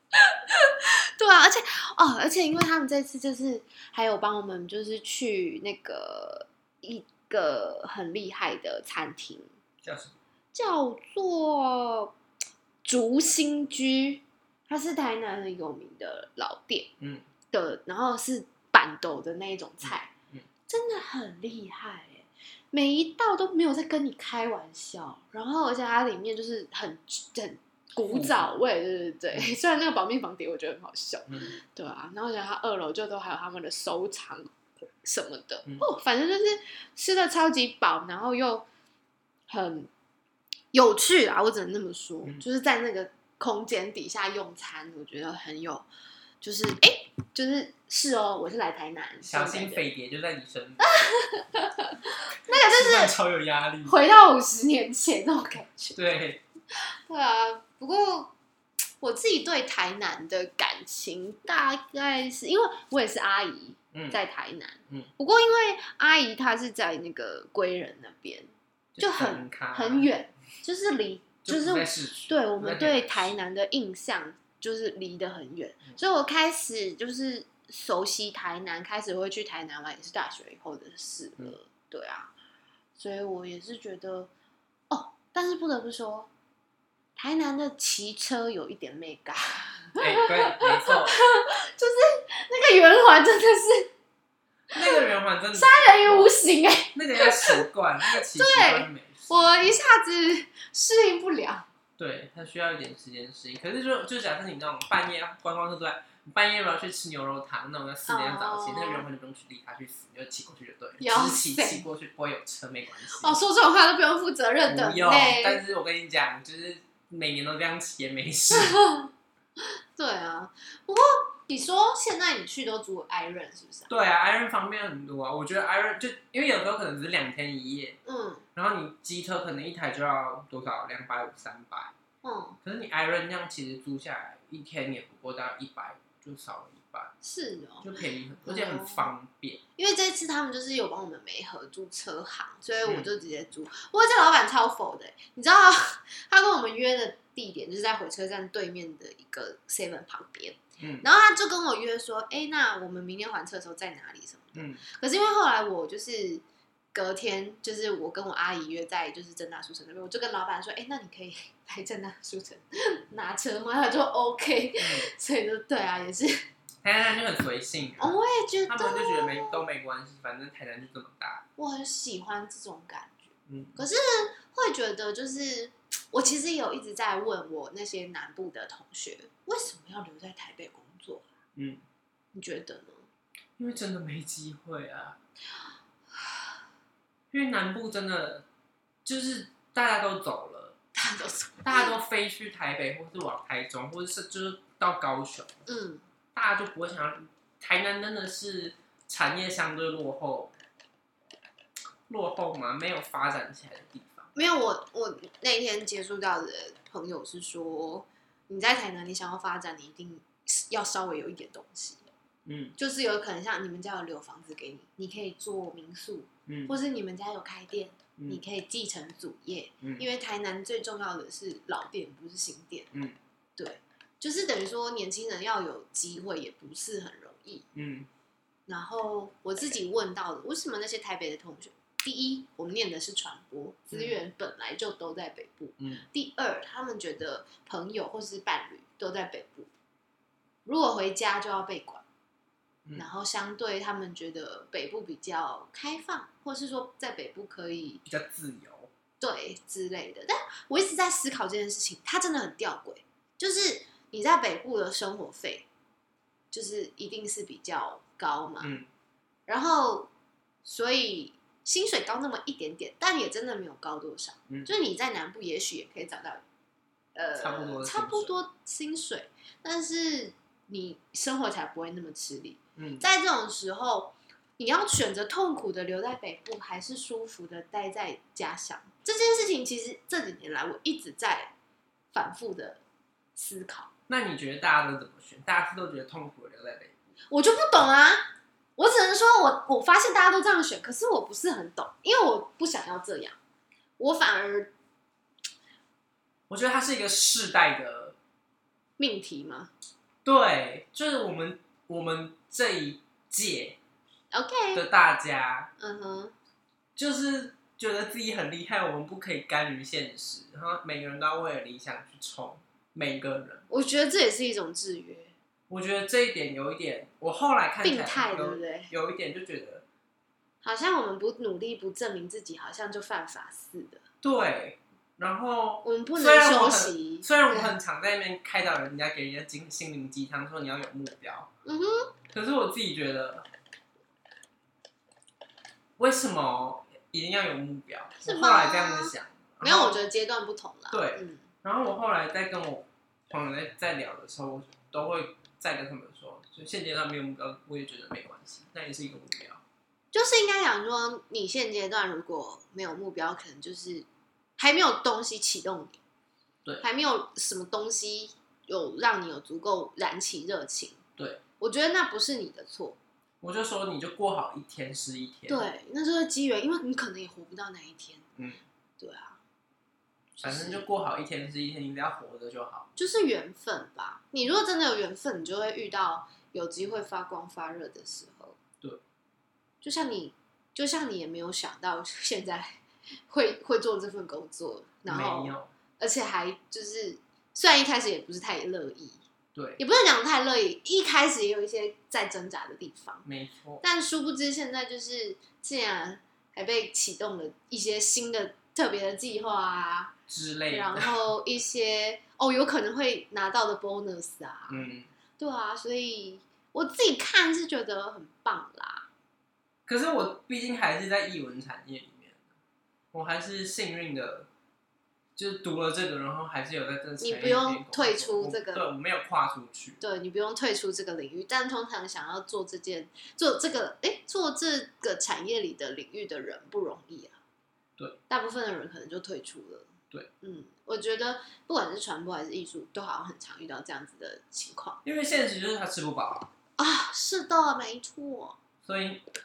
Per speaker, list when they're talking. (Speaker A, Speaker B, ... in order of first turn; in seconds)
Speaker A: 0.2-9.5, 10.5-12.1, 12.8-16.9, 17.5-20.1, 20.7-38.6, 39.5-39.9, 40.7-45.9, 46.4-49.9, 50.8-53.1, 53.8-56.0, 56.8-58.3, 59.0-82.3, 83.0-84.3, 84.9-86.3, 87.2-93.9, 94.7-101.7, 108.1-109.0, 111.0-111.8, 113.1-115.6, 118.5-119.1, 119.9-123.9, 128.0-128.4, 132.2-132.6, 137.2-137.9, 138.4-139.1, 139.8-156.4, 156.9-166.4, 168.0-169.6, 171.6-181.2, 182.3-183.1, 190.9-191.9, 195.7-196.0, 204.3-212.0, 212.8-222.9, 223.6-227.7, 228.7-239.7, 240.6-242.0, 242.9-248.0, 249.2-255.7, 256.5-258.7, 259.5-260.1, 260.6-266.4, 267.1-281.5, 282.1-282.8, 283.3-283.9, 287.3-293.4, 294.0-294.7, 299.0-299.7, 304.3-304.8, 305.8-306.3, 313.7-315.3, 317.8-318.9, 320.6-324.0, 325.8-327.7, 331.6-332.1, 338.2-341.4, 350.1-354.1, 354.6-356.0, 356.8-361.0, 361.6-363.0, 365.5-368.2, 369.0-369.4, 370.4-370.9, 372.9-378.6, 379.8-389.2, 389.8-393.2, 393.8-400.1, 400.7-404.9, 405.4-409.1, 417.2-418.8, 420.0-427.4, 428.3-435.0, 436.8-438.6
Speaker B: 9.8-10.2, 17.0-17.2, 19.8-20.5, 28.1-28.5, 31.3-31.6, 49.2-51.1, 52.4-54.0, 55.9-56.4, 63.9-64.2, 68.9-70.1, 71.4-73.4, 90.0-91.2, 94.7-96.3, 96.9-99.3, 102.0-113.4, 114.7-118.8, 123.9-128.0, 128.5-131.9, 132.6-137.1, 137.8-139.6, 150.8-151.0, 154.5-154.8, 164.8-165.1, 166.8-168.1, 168.7-171.4, 173.5-173.8, 181.6-181.8, 183.6-185.2, 187.3-188.4, 189.0-190.8, 191.6-195.6, 196.3-200.5, 202.1-204.3, 212.4-212.7, 216.5-216.7, 218.2-218.4, 222.9-223.2, 227.7-228.1, 233.9-234.2, 235.8-236.1, 248.0-248.9, 258.6-258.9, 267.4-268.4, 272.8-273.1, 284.1-286.9, 296.5-298.1, 300.2-303.8, 304.7-305.7, 306.9-313.6, 315.7-319.8, 324.2-331.5, 332.3-333.5, 336.0-340.0, 340.9-349.6, 361.2-361.4, 363.4-365.7, 368.4-368.6, 370.4-372.9, 385.1-385.7, 389.5-389.8, 393.2-393.8, 400.3-401.1, 404.7-405.1, 409.9-412.4, 413.1-414.5, 415.4-420.0, 435.0-436.5, 438.8-439.2